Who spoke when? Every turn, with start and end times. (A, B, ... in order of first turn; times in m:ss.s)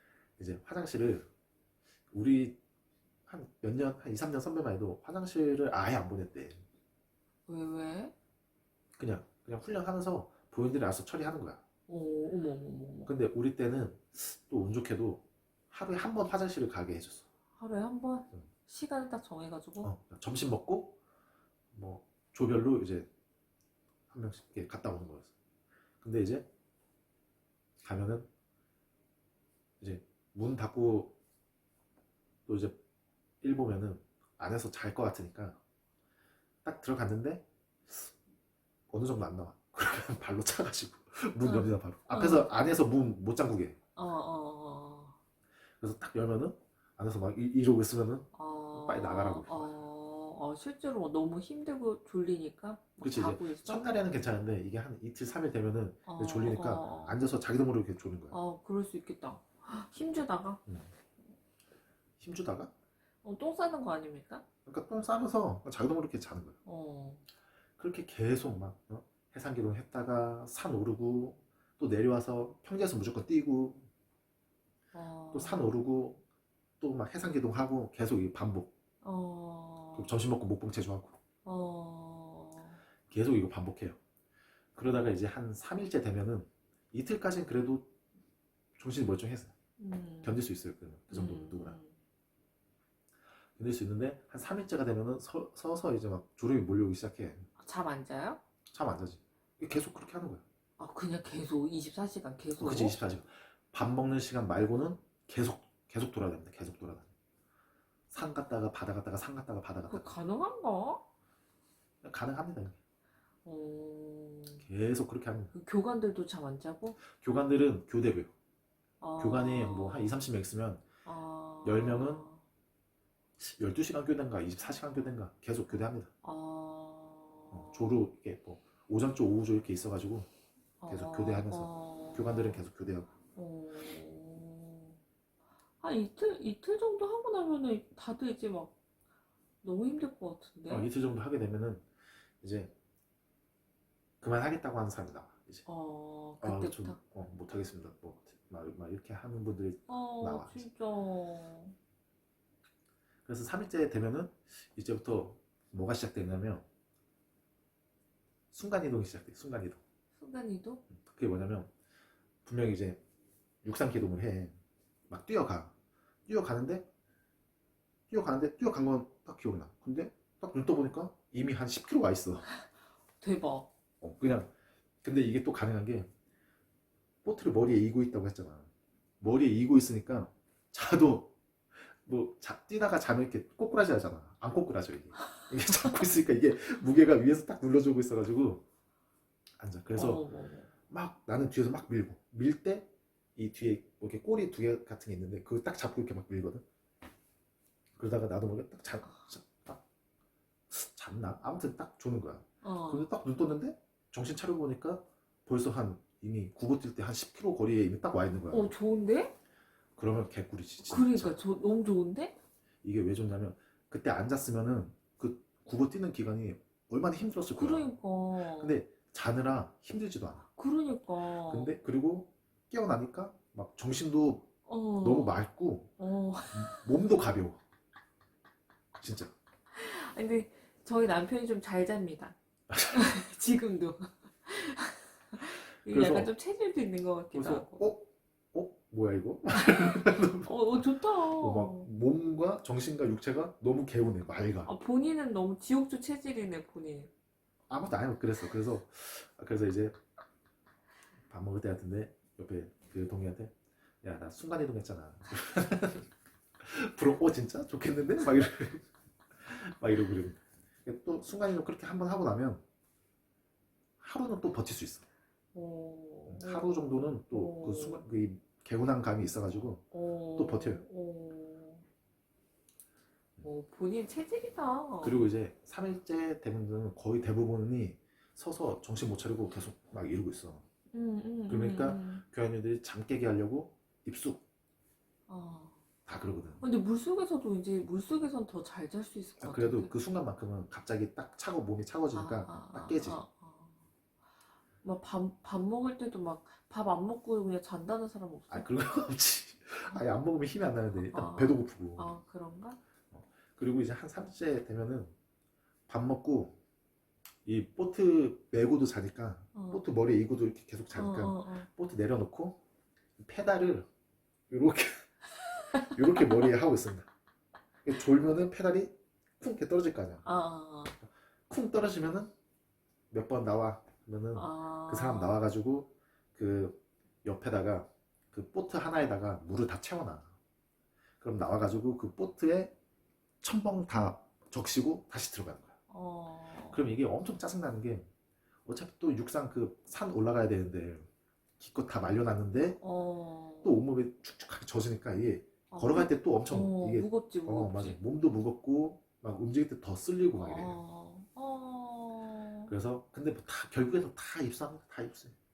0:00.4-0:01.3 A
0:02.1-0:02.6 A
0:03.3-0:06.6 A
0:07.5-0:08.1 B
0:09.0-0:11.6 A
0:11.9-0:13.1 B
0:13.0-0:17.3 A
0:17.6-0:19.9 B
0:19.8-0:21.0 A
0:21.7-0:23.1 A
0:24.1-0:25.3 A
0:26.0-0:26.5 A
0:27.8-0:28.3 A
0:29.8-0:31.2 A
0:32.5-0:32.8 A
0:33.4-0:35.6 A
0:36.6-0:38.1 A
0:38.9-0:43.8 A
0:41.4-0:42.5 B
0:44.0-0:45.2 B
0:45.8-0:49.7 A
0:48.3-0:54.1 B
0:53.0-0:58.4 A
0:56.1-0:57.2 B
0:58.3-1:00.6 B
1:02.2-1:02.7 A
1:03.2-1:04.4 B
1:04.7-1:06.6 A
1:06.6-1:07.2 B
1:07.8-1:13.9 A
1:14.9-1:15.7 B
1:15.3-1:16.2 A
1:16.8-1:18.7 A
1:19.0-1:20.2 B
1:19.9-1:21.2 A
1:21.4-1:22.8 B
1:23.1-1:24.0 A
1:24.8-1:27.9 A
1:28.8-1:29.5 A
1:29.8-1:30.4 B
1:30.2-1:31.8 A
1:31.1-1:32.0 B
1:33.6-1:37.5 A
1:37.6-1:38.4 B
1:38.7-1:40.4 A
1:40.8-1:43.0 B
1:42.6-1:47.1 A
1:48.1-1:50.1 A
1:49.9-1:51.0 B
1:52.0-1:52.8 A
1:53.4-1:54.7 B
1:54.6-1:55.5 A
1:55.5-1:57.0 B
1:57.0-1:58.3 A
1:59.0-2:00.2 B
1:59.2-2:00.9 A
2:01.0-2:02.4 B
2:01.6-2:02.2 A
2:03.4-2:06.1 A
2:06.2-2:08.0 B
2:07.5-2:10.3 A
2:10.8-2:12.6 B
2:10.9-2:13.1 A
2:13.4-2:15.0 B
2:15.8-2:18.8 B
2:19.6-2:20.9 B
2:20.7-2:21.8 A
2:22.4-2:22.7 A
2:24.2-2:25.6 A
2:25.7-2:27.0 B
2:26.4-2:30.7 A
2:29.9-2:31.8 B
2:33.3-2:36.6 A
2:38.5-2:39.8 A
2:40.2-2:40.8 B
2:40.9-2:41.7 A
2:42.4-2:43.0 A
2:43.6-2:44.6 A
2:45.1-2:45.7 A
2:46.3-2:46.9 A
2:48.1-2:52.5 A
2:53.2-2:53.7 B
2:54.0-2:54.5 A
2:55.0-2:56.1 A
2:57.2-2:58.7 A
2:59.2-3:01.3 A
3:02.0-3:08.6 A
3:09.6-3:10.2 A
3:10.0-3:10.7 B
3:10.9-3:16.6 A
3:18.0-3:19.8 A
3:20.7-3:28.7 A
3:22.6-3:23.1 B
3:28.5-3:29.4 B
3:30.0-3:31.4 A
3:30.8-3:32.4 B
3:32.8-3:37.9 A
3:37.6-3:38.8 B
3:38.5-3:40.4 A
3:40.5-3:41.8 B
3:41.5-3:44.5 A
3:44.7-3:45.4 B
3:45.0-3:45.9 A
3:46.0-3:46.9 B
3:46.5-3:47.6 A
3:49.0-3:49.3 A
3:49.7-3:52.4 B
3:52.7-3:53.0 A
3:52.9-3:57.9 B
3:55.9-3:56.3 A
3:57.3-4:04.7 A
3:59.7-4:01.9 B
4:04.6-4:07.1 B
4:07.7-4:10.0 A
4:11.3-4:18.9 A
4:19.4-4:22.6 A
4:24.0-4:25.0 A
4:25.5-4:28.0 B
4:26.3-4:29.8 A
4:29.9-4:31.8 B
4:30.4-4:30.8 A
4:33.4-4:35.3 B
4:35.0-4:40.6 A
4:40.9-4:42.2 B
4:41.5-4:44.4 A
4:45.3-4:45.8 B
4:46.1-4:46.6 A
4:46.6-4:49.9 B
4:49.4-4:53.2 A
4:52.1-4:53.9 B
4:54.8-4:58.7 B
4:58.5-5:02.2 A
5:01.1-5:02.8 B
5:03.1-5:05.1 A
5:05.9-5:06.6 A
5:07.5-5:12.6 A
5:09.6-5:09.8 B
5:10.9-5:11.7 B
5:13.2-5:13.9 A
5:14.5-5:15.1 A
5:15.7-5:16.5 B
5:15.8-5:17.1 A
5:17.8-5:20.2 A
5:20.2-5:21.0 B
5:21.0-5:22.3 A
5:23.1-5:30.3 A
5:24.3-5:25.4 B
5:31.2-5:32.7 A
5:33.4-5:35.8 A
5:35.9-5:36.8 B
5:36.7-5:38.1 A
5:38.7-5:41.1 A
5:41.6-5:42.8 A
5:42.8-5:43.8 B
5:43.6-5:50.8 A
5:45.7-5:48.0 B
5:50.4-5:52.7 B
5:52.7-5:55.4 A